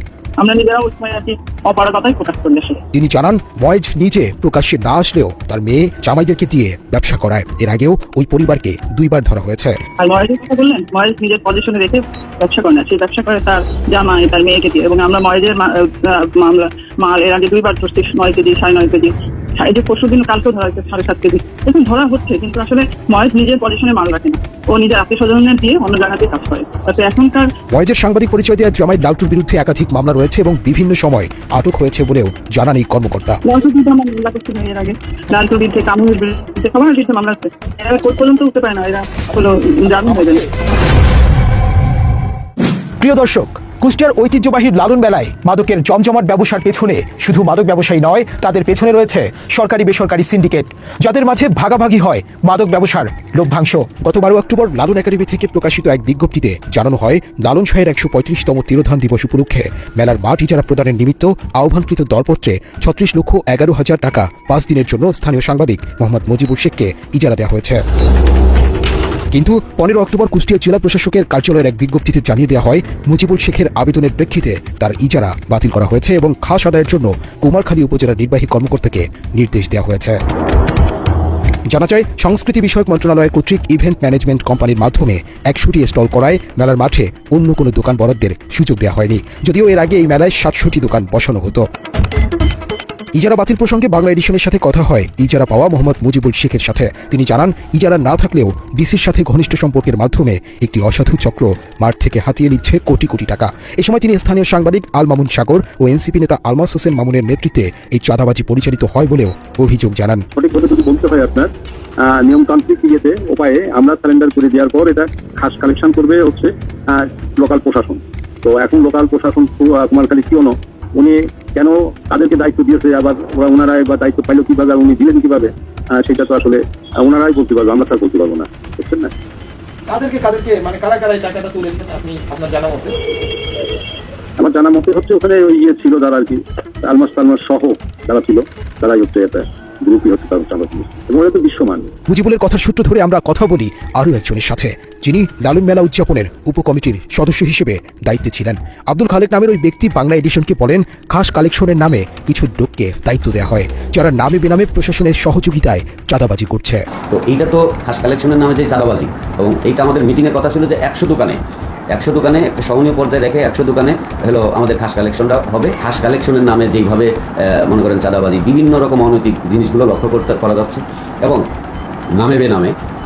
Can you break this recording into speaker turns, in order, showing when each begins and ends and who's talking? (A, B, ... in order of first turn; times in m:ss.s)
0:00.4-0:02.8 A
0:02.9-0:09.8 B
0:10.0-0:27.5 A
0:27.7-0:33.4 B
0:33.5-0:40.4 A
0:43.0-1:07.8 B
1:09.3-1:20.2 B
1:21.7-1:31.6 B
1:33.2-1:50.2 B
1:50.4-1:51.5 C
1:52.1-2:09.1 C
2:09.9-2:12.9 D
2:14.4-2:21.9 C
2:22.1-2:36.8 B
2:37.2-2:41.4 E
2:42.0-2:47.1 E
2:47.7-2:51.4 E
2:52.2-2:52.7 E